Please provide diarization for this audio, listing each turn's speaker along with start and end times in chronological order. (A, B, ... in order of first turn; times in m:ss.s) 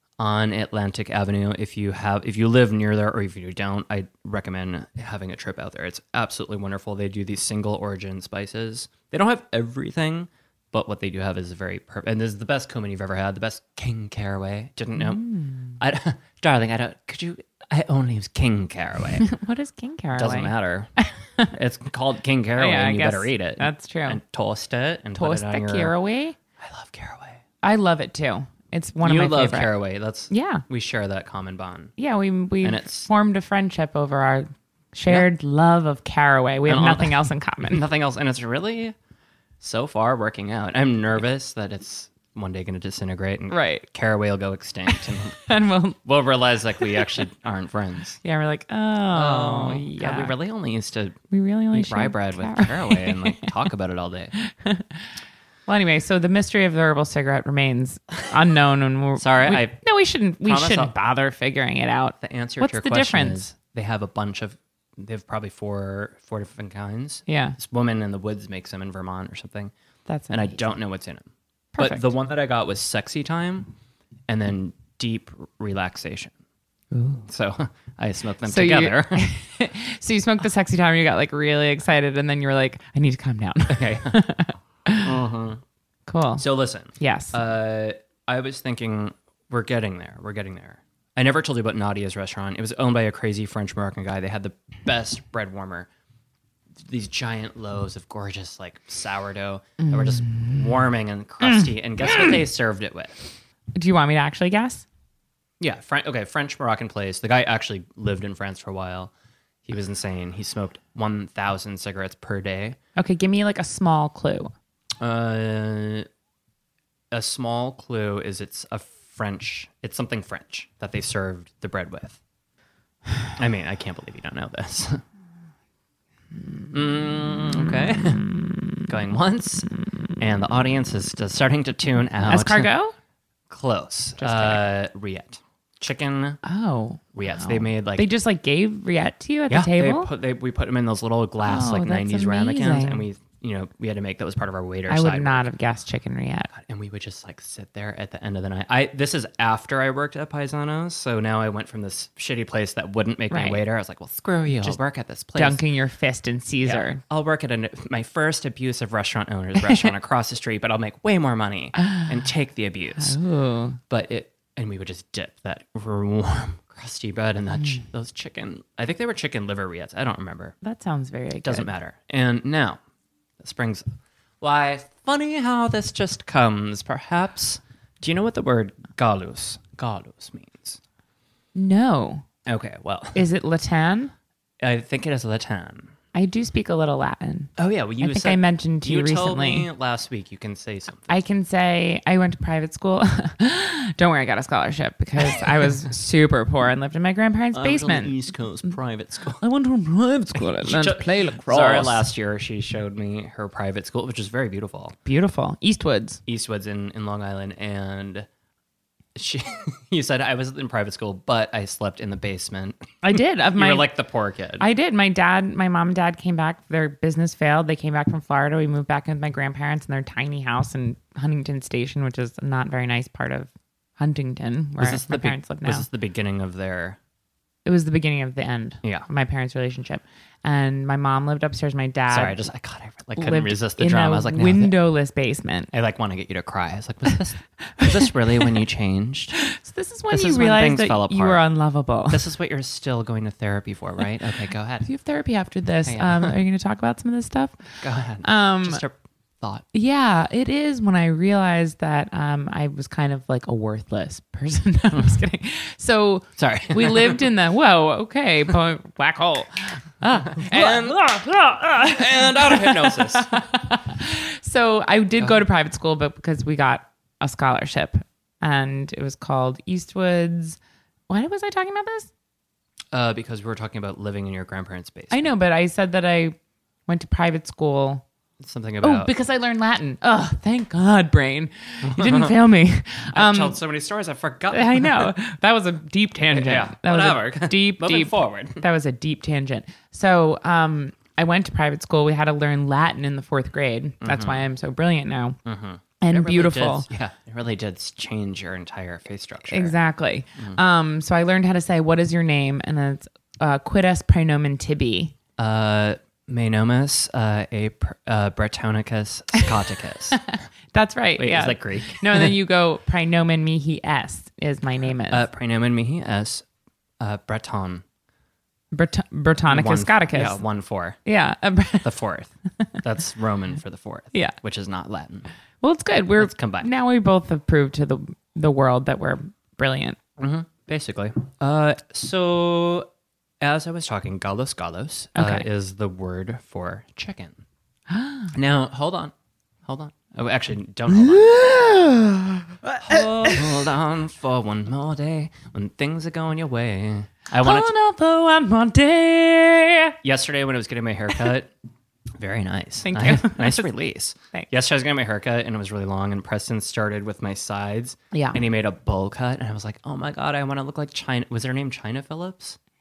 0:00.2-0:19.2 A
0:15.1-0:15.8 B
0:19.2-0:21.5 B
0:20.1-0:20.9 A
0:21.5-0:25.9 A
0:22.6-0:24.2 B
0:25.2-0:26.4 B
0:26.6-0:27.4 A
0:27.6-0:29.7 B
0:29.0-0:31.9 A
0:30.3-0:30.6 B
0:32.0-0:37.8 B
0:32.6-0:33.1 A
0:36.7-0:39.0 A
0:39.6-0:45.4 A
0:43.5-0:43.9 B
0:44.9-0:46.0 B
0:46.0-0:48.2 A
0:48.2-0:50.4 B
0:49.1-0:51.2 A
0:51.3-0:53.5 B
0:51.7-0:54.3 A
0:54.4-0:55.0 B
0:55.7-1:03.4 B
0:59.2-0:59.8 A
1:00.4-1:00.9 A
1:02.2-1:09.7 A
1:07.3-1:07.6 B
1:10.1-1:10.6 B
1:10.3-1:11.3 A
1:11.8-1:12.1 B
1:11.8-1:13.7 A
1:14.3-1:16.3 A
1:16.9-1:17.2 B
1:17.3-1:19.3 A
1:18.5-1:25.2 B
1:23.7-1:24.2 A
1:25.0-1:25.6 A
1:26.1-1:26.5 B
1:26.4-1:35.9 A
1:27.0-1:27.4 B
1:36.8-1:43.3 A
1:39.8-1:40.6 B
1:41.5-1:42.4 B
1:43.8-1:44.9 B
1:45.6-1:49.1 A
1:49.6-1:52.8 A
1:53.0-1:54.5 B
1:55.0-1:56.1 A
1:57.1-2:02.2 A
2:03.4-2:05.0 A
2:06.7-2:08.2 A
2:07.9-2:08.5 B
2:08.9-2:12.7 A
2:12.3-2:12.9 B
2:13.5-2:16.4 A
2:14.2-2:14.7 B
2:16.4-2:20.1 B
2:17.2-2:18.1 A
2:19.5-2:25.5 A
2:21.4-2:23.1 B
2:24.9-2:26.5 B
2:26.5-2:35.6 A
2:33.3-2:33.6 B
2:35.4-2:37.0 B
2:36.6-2:43.2 A
2:41.8-2:42.1 B
2:43.0-2:43.8 B
2:43.9-2:50.6 A
2:50.6-2:51.7 B
2:51.4-2:52.8 A
2:53.4-2:53.8 A
2:54.4-3:00.8 A
3:01.6-3:02.3 B
3:02.5-3:03.2 A
3:03.2-3:04.1 B
3:04.6-3:05.9 A
3:06.1-3:09.7 B
3:07.6-3:11.2 A
3:11.1-3:18.2 B
3:17.5-3:19.4 A
3:19.4-3:22.0 B
3:20.3-3:25.0 A
3:25.0-3:26.2 B
3:26.3-3:28.3 A
3:29.2-3:34.7 A
3:33.0-3:33.9 B
3:34.6-3:45.9 B
3:44.8-3:47.0 A
3:47.6-3:52.4 B
3:52.1-3:54.7 A
3:53.2-3:55.7 B
3:55.7-3:59.4 A
3:57.6-3:58.5 B
3:59.4-4:02.2 B
4:00.1-4:01.4 A
4:02.1-4:04.9 A
4:04.8-4:07.6 B
4:05.8-4:06.4 A
4:07.8-4:09.6 A
4:08.2-4:08.8 B
4:09.7-4:30.6 B
4:16.4-4:17.2 A
4:20.2-4:21.1 A
4:21.6-4:23.4 A
4:31.1-4:32.1 B
4:32.9-4:35.3 A
4:35.1-4:38.0 B
4:38.4-4:39.1 A
4:38.8-4:43.6 B
4:41.8-4:42.4 A
4:43.1-4:45.1 A
4:44.5-4:55.4 B
4:46.2-4:48.6 A
4:54.0-4:54.4 A
4:55.4-4:59.8 A
4:56.0-4:56.9 B
4:59.5-5:05.1 B
5:05.4-5:10.2 A
5:10.2-5:15.3 B
5:11.2-5:12.4 A
5:15.1-5:16.4 A
5:17.0-5:17.8 A
5:18.7-5:20.4 B
5:19.5-5:21.0 A
5:21.0-5:21.9 B
5:21.8-5:25.3 A
5:25.6-5:30.0 B
5:26.2-5:26.7 A
5:30.2-5:32.9 A
5:33.4-5:37.4 A
5:35.2-5:35.5 B
5:37.9-5:38.3 B
5:38.3-5:39.1 A
5:39.7-5:41.3 A
5:40.9-5:43.6 B
5:42.8-5:47.7 A
5:47.3-5:50.0 B
5:50.0-5:51.5 A
5:52.2-6:02.6 A
5:52.8-5:53.7 B
5:58.1-5:58.4 B